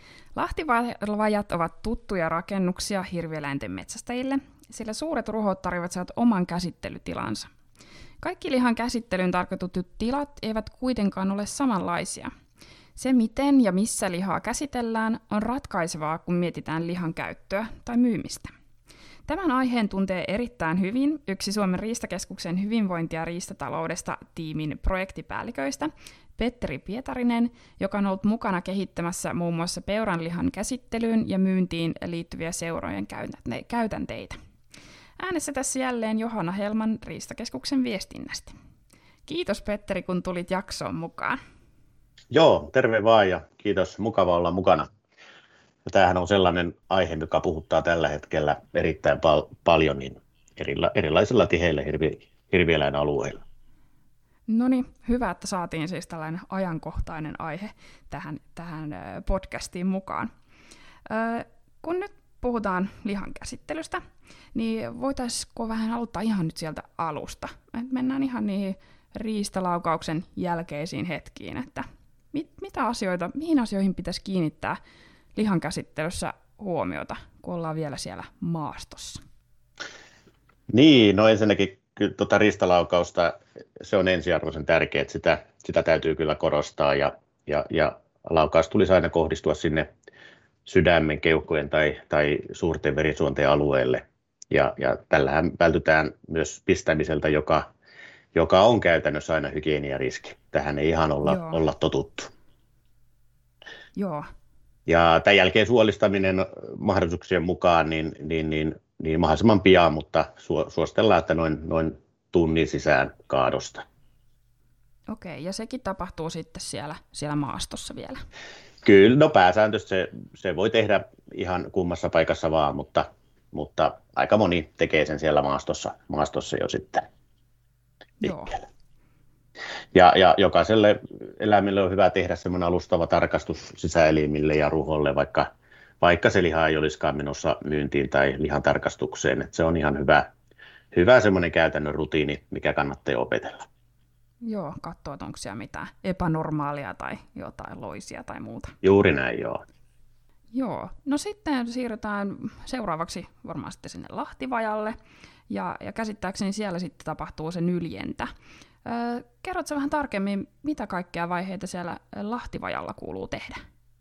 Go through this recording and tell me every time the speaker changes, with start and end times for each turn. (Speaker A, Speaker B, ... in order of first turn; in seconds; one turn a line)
Speaker A: 0.3-7.5
Speaker A: 8.2-12.3
Speaker A: 13.0-18.5
Speaker A: 19.3-34.4
Speaker A: 35.2-38.5
Speaker A: 39.3-41.4
Speaker B: 42.3-44.9
Speaker B: 45.9-53.4
Speaker A: 54.5-60.3
Speaker A: 61.1-64.0
Speaker A: 64.5-74.8
Speaker A: 75.3-79.2
Speaker B: 80.7-89.9
Speaker B: 90.7-97.7
Speaker B: 98.3-102.3
Speaker A: 101.2-101.6
Speaker A: 104.0-104.3
Speaker B: 104.9-113.8
Speaker A: 115.1-118.2
Speaker B: 118.8-127.1
Speaker A: 128.2-128.6
Speaker B: 129.9-135.5
Speaker B: 136.0-140.3
Speaker B: 140.9-143.6
Speaker A: 144.4-148.7
Speaker B: 148.8-149.6
Speaker A: 150.5-155.0
Speaker A: 155.5-158.3
Speaker A: 158.8-163.6